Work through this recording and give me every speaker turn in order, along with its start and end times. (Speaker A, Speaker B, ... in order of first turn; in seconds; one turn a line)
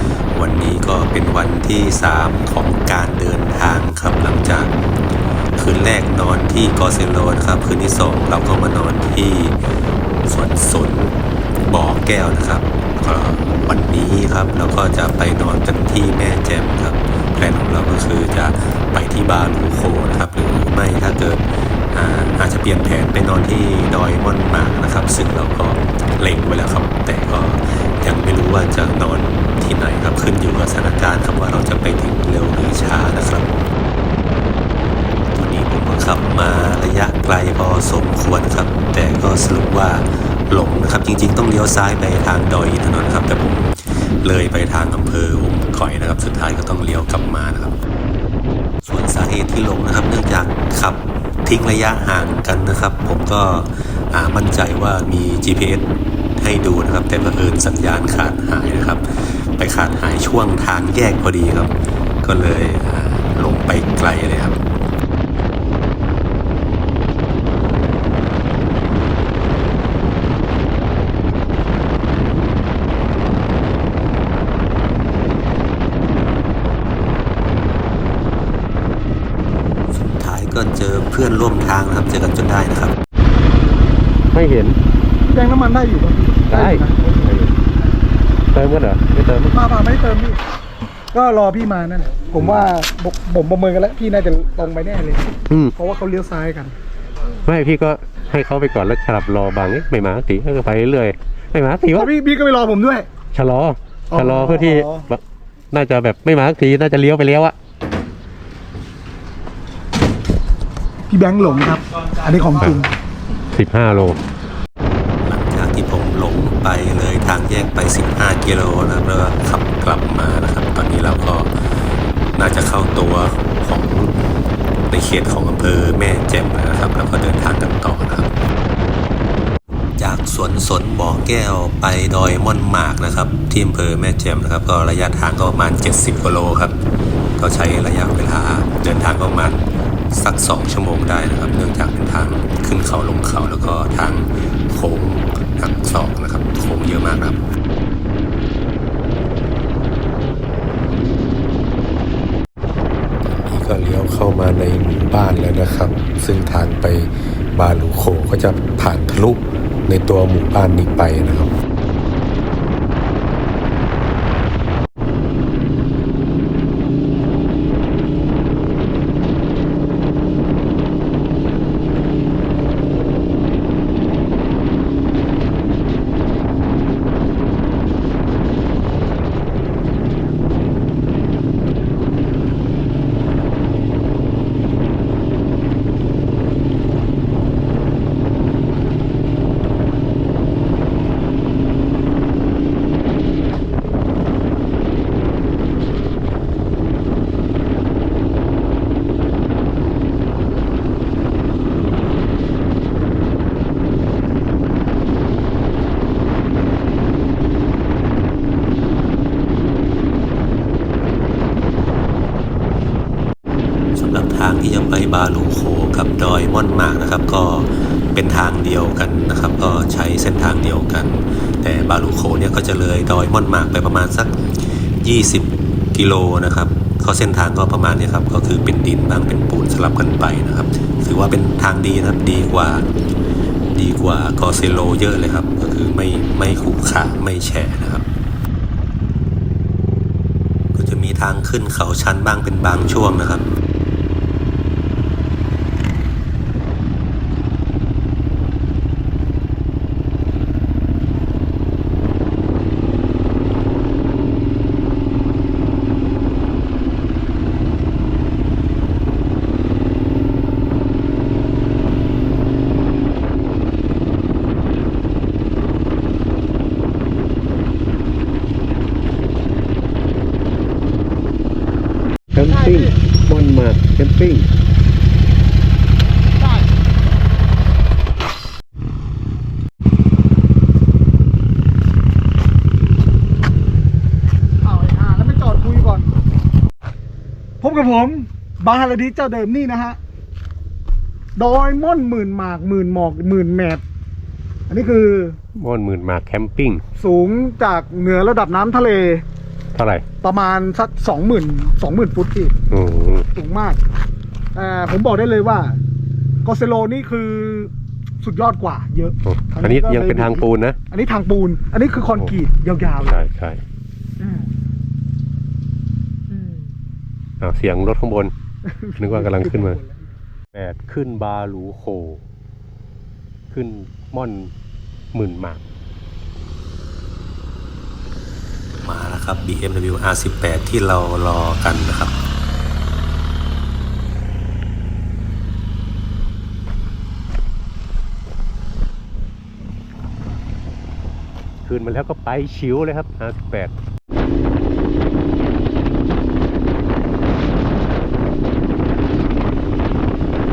Speaker A: 0.3-4.7
Speaker A: 5.6-9.6
Speaker A: 10.3-33.6
Speaker A: 35.3-47.8
Speaker A: 48.8-64.6
Speaker A: 79.9-83.0
Speaker B: 84.3-84.8
Speaker C: 85.3-87.3
Speaker B: 86.5-87.5
Speaker B: 88.5-89.6
Speaker C: 89.5-90.4
Speaker C: 91.1-96.8
Speaker B: 97.4-102.1
Speaker C: 101.9-103.1
Speaker B: 103.3-105.2
Speaker C: 104.1-105.0
Speaker B: 105.7-107.5
Speaker C: 111.1-112.9
Speaker B: 113.5-114.2
Speaker A: 115.2-121.5
Speaker A: 122.3-124.1
Speaker A: 124.9-128.3
Speaker A: 130.0-136.8
Speaker A: 137.4-147.4
Speaker A: 153.3-161.5
Speaker A: 213.9-224.3
Speaker A: 225.0-232.9
Speaker A: 233.7-238.1
Speaker A: 240.7-243.5
Speaker B: 272.3-274.5
Speaker C: 272.5-272.9
Speaker C: 276.4-276.7
Speaker C: 284.6-286.1
Speaker C: 287.6-290.0
Speaker C: 291.4-293.8
Speaker C: 294.7-295.4
Speaker B: 295.6-296.8
Speaker C: 297.0-299.2
Speaker B: 299.8-300.0
Speaker C: 300.2-302.5
Speaker B: 302.7-303.3
Speaker C: 303.3-303.8
Speaker C: 304.6-305.8
Speaker C: 306.4-313.2
Speaker B: 309.2-310.8
Speaker B: 313.0-313.6
Speaker C: 314.2-314.5
Speaker C: 316.3-316.6
Speaker B: 317.4-318.3
Speaker C: 318.7-319.9
Speaker B: 319.0-319.8
Speaker B: 320.5-322.2
Speaker B: 323.5-324.5
Speaker B: 325.1-325.6
Speaker A: 328.8-332.1
Speaker B: 341.6-343.7